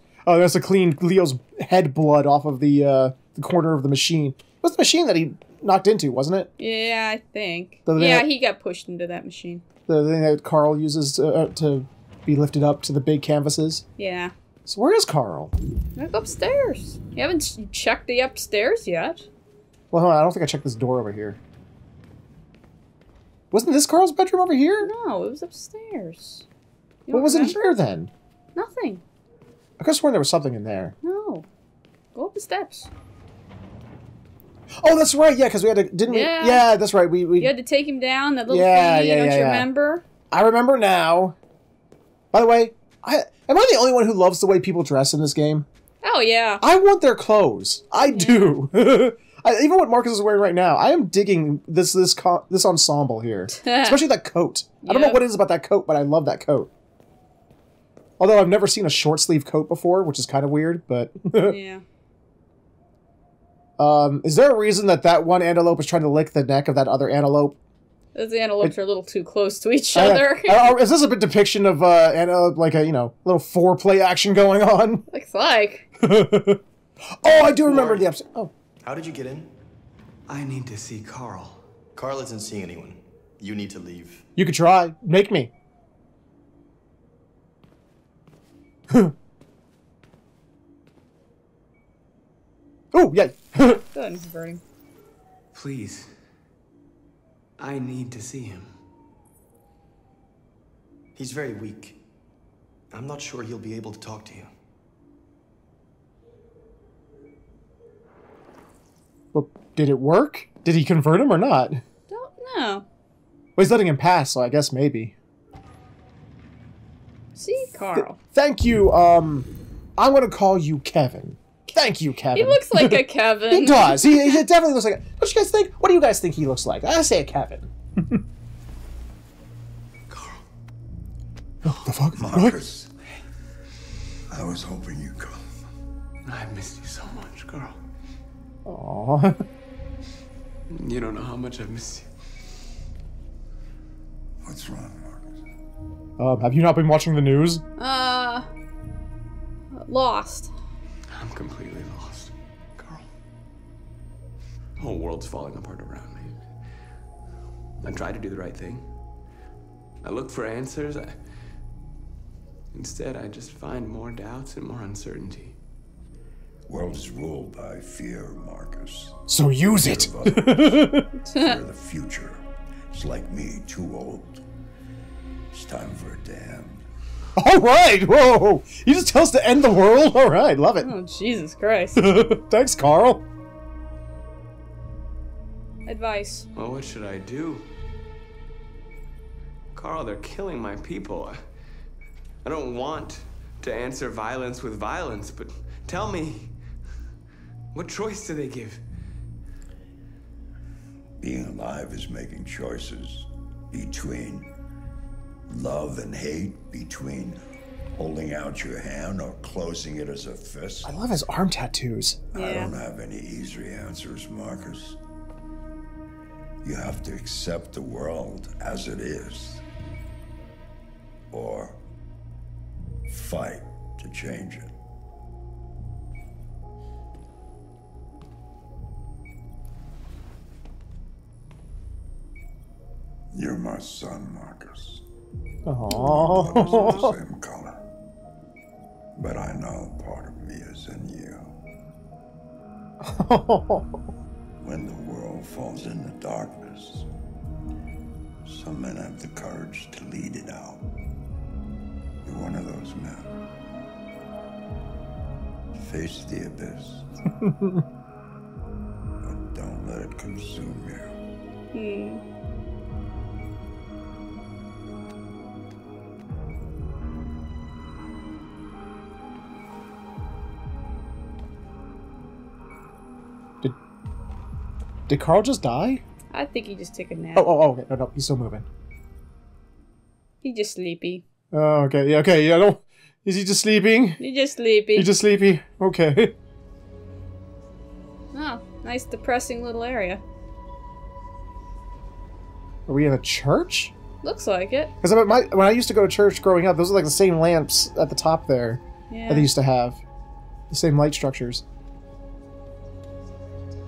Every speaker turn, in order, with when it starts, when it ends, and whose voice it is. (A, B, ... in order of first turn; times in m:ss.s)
0:00.2-0:06.5 A
0:06.6-0:09.6 B
0:07.9-0:08.3 A
0:09.9-0:13.8 A
0:14.0-0:14.3 B
0:14.6-0:15.5 A
0:16.0-0:19.3 B
0:19.9-0:21.4 A
0:23.5-0:24.9 A
0:24.8-0:26.4 B
0:27.1-0:27.7 B
0:27.1-0:28.1 A
0:28.5-0:29.0 B
0:29.8-0:30.9 A
0:31.0-0:31.4 B
0:32.1-0:32.9 B
0:34.8-0:37.5 A
0:36.1-0:36.6 B
0:37.4-0:40.0 B
0:38.5-0:39.7 A
0:40.3-0:41.4 A
0:42.3-0:45.7 A
0:46.0-0:46.6 B
0:46.6-0:56.7 A
0:48.0-0:48.6 B
0:53.5-0:54.0 B
0:54.8-0:55.2 B
0:58.2-1:01.6 A
1:01.4-1:01.8 B
1:03.8-1:07.6 A
1:08.1-1:10.8 B
1:09.9-1:15.0 A
1:15.1-1:15.9 B
1:16.0-1:16.6 A
1:17.2-1:18.5 A
1:17.3-1:18.0 C
1:18.8-1:19.5 D
1:20.3-1:21.6 C
1:22.0-1:24.2 D
1:24.4-1:25.5 A
1:32.9-1:33.8 A
1:33.6-1:34.6 B
1:35.5-1:36.1 C
1:37.6-1:38.7 C
1:41.2-1:42.0 D
1:42.9-1:44.5 D
1:49.3-1:51.8 A
1:52.1-1:52.8 B
1:53.6-1:55.1 A
1:57.4-1:58.2 B
1:57.8-2:08.2 A
2:02.3-2:04.4 B
2:10.1-2:10.4 C
2:11.8-2:12.7 A
2:12.2-2:12.9 E
2:14.3-2:15.4 E
2:16.2-2:17.8 C
2:18.6-2:19.4 A
2:20.7-2:22.1 C
2:24.4-2:25.4 E
2:26.2-2:27.6 A
2:27.8-2:28.5 B
2:29.7-2:30.5 B
2:31.1-2:33.0 C
2:34.8-2:36.4 C
2:37.8-2:38.9 C
2:40.0-2:41.2 C
2:42.7-2:45.6 C
2:46.7-2:54.4 E
2:49.3-2:51.1 A
2:51.3-2:51.6 B
2:55.5-2:56.8 E
2:57.4-3:00.9 A
3:00.8-3:02.1 B
3:02.0-3:03.2 A
3:05.9-3:06.4 B
3:06.5-3:07.6 C
3:09.7-3:11.4 C
3:12.4-3:16.5 C
3:17.7-3:18.8 C
3:21.2-3:24.5 E
3:25.5-3:27.4 E
3:27.9-3:30.9 E
3:30.8-3:32.2 A
3:32.3-3:32.7 B
3:32.3-3:35.0 E
3:36.6-3:39.6 E
3:41.3-3:41.8 E
3:43.1-3:44.7 E
3:53.3-3:55.0 E
3:55.6-3:57.1 A
3:55.9-3:57.0 B
3:56.0-3:57.8 E
3:59.2-4:01.5 E
4:03.0-4:03.9 A
4:04.6-4:07.1 E
4:08.4-4:10.8 E
4:12.2-4:13.3 E
4:15.7-4:17.1 E
4:19.2-4:21.2 E
4:21.7-4:22.2 B
4:35.1-4:36.0 A
4:36.3-4:37.5 B
4:37.3-4:38.6 A
4:40.4-4:41.2 B
4:41.5-4:44.2 A
4:44.2-4:45.1 B
4:44.9-4:46.3 A
4:48.3-4:50.2 B
4:52.9-4:53.9 A
4:54.2-4:54.9 B
4:55.0-5:00.0 A
4:59.1-4:59.5 B
5:00.7-5:01.6 A